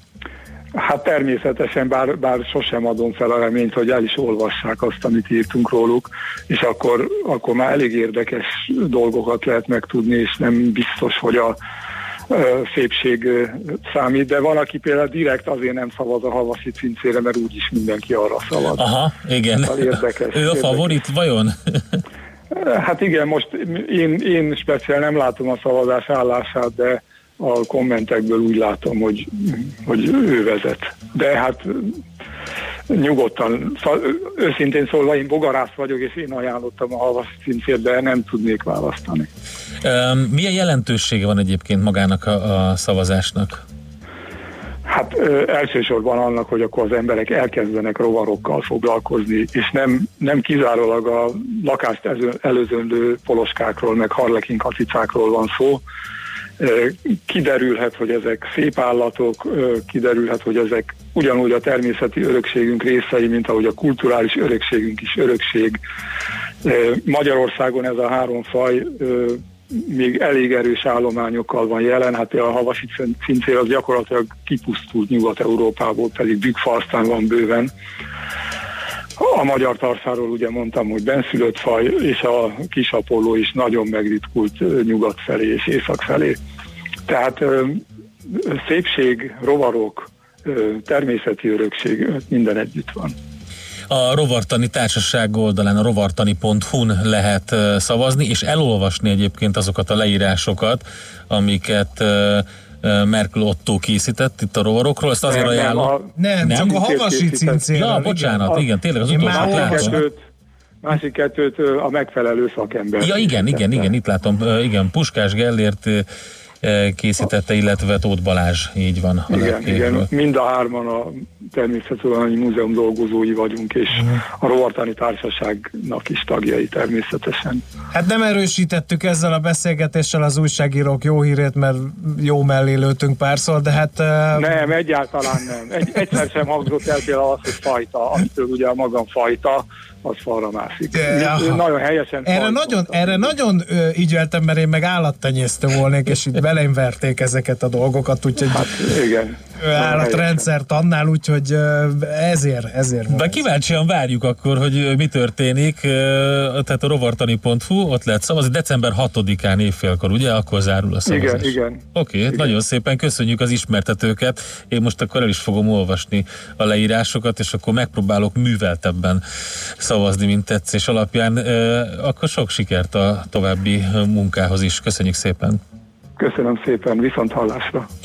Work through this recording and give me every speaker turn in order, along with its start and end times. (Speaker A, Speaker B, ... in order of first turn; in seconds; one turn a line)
Speaker A: 0.8-11.6
Speaker A: 12.3-18.9
Speaker B: 18.8-22.0
Speaker A: 19.6-21.1
Speaker A: 22.5-31.9
Speaker A: 32.9-39.3
Speaker B: 39.8-43.6
Speaker A: 44.9-55.8
Speaker A: 56.6-65.8
Speaker A: 66.6-77.7
Speaker A: 79.2-86.4
Speaker A: 87.1-93.1
Speaker B: 93.9-106.8
Speaker A: 105.2-107.7
Speaker C: 106.2-110.0
Speaker B: 107.7-110.0
Speaker A: 109.2-110.2
Speaker A: 110.8-113.9
Speaker B: 113.0-116.1
Speaker B: 116.6-120.1
Speaker A: 119.3-127.6
Speaker C: 127.9-134.6
Speaker A: 134.4-143.4
Speaker C: 140.9-141.7
Speaker C: 142.3-148.9
Speaker A: 148.5-150.5
Speaker C: 149.6-153.4
Speaker B: 153.1-169.2
Speaker A: 161.1-162.6
Speaker B: 169.8-175.6
Speaker A: 176.2-177.9